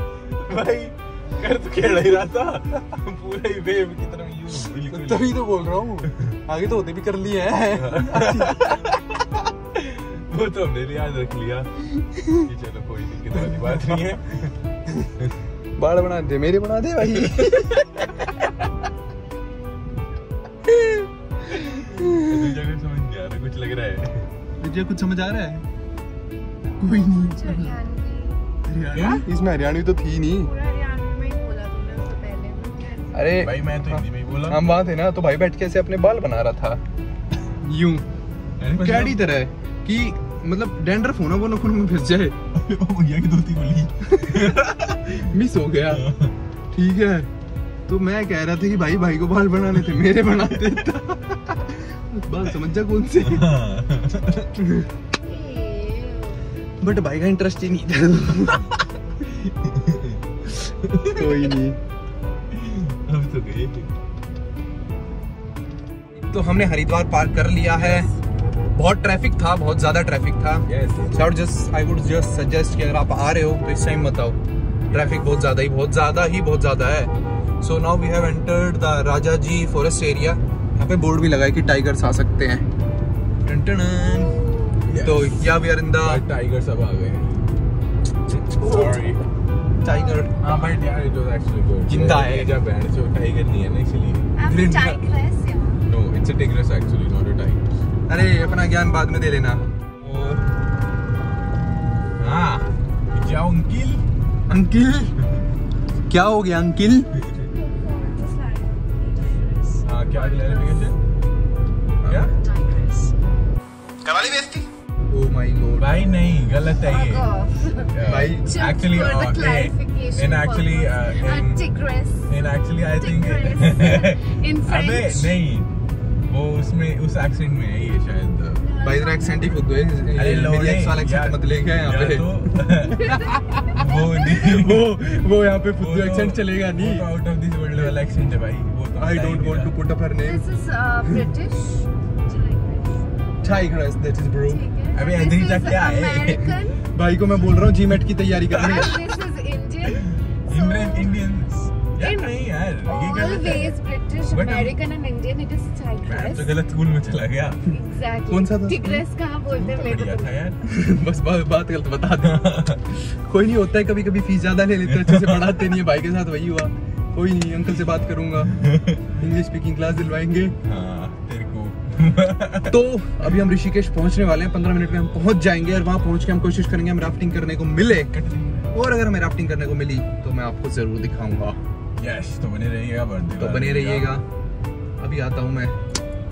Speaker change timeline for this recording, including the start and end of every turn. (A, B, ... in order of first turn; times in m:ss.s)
0:00.4-0:05.4 A
0:04.9-0:08.8 B
0:07.7-0:11.8 A
0:12.0-0:12.5 B
0:12.4-0:14.6 A
0:13.3-0:14.0 B
0:15.8-0:18.3 B
0:20.7-0:22.4 B
0:21.6-0:24.3 A
0:24.6-0:25.7 B
0:26.8-0:27.8 B
0:26.8-0:28.4 C
0:28.7-0:30.5 B
0:28.9-0:29.3 A
0:30.4-0:33.4 C
0:33.1-0:36.8 B
0:33.4-0:34.6 A
0:37.6-0:38.1 B
0:38.6-0:39.2 A
0:38.7-0:42.4 B
0:42.5-0:46.4 A
0:44.2-0:44.5 B
0:45.2-0:46.1 B
0:46.7-0:47.3 B
0:47.9-0:53.5 B
0:53.2-0:54.5 A
0:54.6-0:54.9 B
0:55.2-0:56.5 C
0:56.8-0:58.8 B
0:59.2-1:01.3 A
1:01.1-1:01.8 B
1:02.5-1:03.9 A
1:06.2-1:08.1 B
1:07.8-1:08.2 A
1:08.7-1:14.4 B
1:10.7-1:11.3 A
1:14.9-1:15.2 A
1:14.9-1:22.7 B
1:23.4-1:24.4 B
1:24.3-1:24.8 C
1:24.8-1:27.5 A
1:25.0-1:26.2 B
1:28.3-1:29.0 B
1:28.6-1:29.2 A
1:29.8-1:30.4 B
1:30.4-1:34.4 A
1:31.9-1:32.5 B
1:34.4-1:35.8 C
1:34.4-1:35.0 B
1:35.8-1:37.7 A
1:38.1-1:40.5 B
1:42.2-1:44.0 A
1:44.5-1:45.2 B
1:46.1-1:47.2 B
1:47.4-1:50.9 C
1:49.8-1:51.0 A
1:52.0-1:52.3 B
1:52.1-1:52.3 A
1:52.3-1:53.1 C
1:54.0-1:55.9 B
1:55.8-1:57.3 A
1:56.8-2:02.3 C
1:57.9-2:01.6 A
1:58.0-1:58.5 B
2:02.3-2:05.8 A
2:03.0-2:05.4 C
2:06.3-2:08.7 A
2:08.6-2:09.6 C
2:08.8-2:17.1 B
2:10.2-2:15.0 A
2:13.0-2:13.8 C
2:15.8-2:19.7 A
2:19.0-2:20.4 B
2:20.2-2:23.1 C
2:23.4-2:24.6 B
2:24.4-2:26.8 C
2:24.9-2:26.7 A
2:26.9-2:29.0 B
2:27.5-2:29.1 A
2:28.5-2:31.4 C
2:29.8-2:34.8 A
2:32.0-2:36.6 C
2:36.1-2:37.7 A
2:37.7-2:40.4 C
2:38.3-2:39.1 B
2:39.5-2:40.6 A
2:40.6-2:50.6 B
2:42.2-2:42.9 A
2:44.9-2:45.7 A
2:48.5-2:49.1 A
2:50.6-2:52.8 A
2:52.6-2:58.1 B
2:58.1-2:58.7 A
2:58.7-3:01.6 B
3:02.0-3:04.2 A
3:03.4-3:04.3 B
3:05.0-3:05.8 B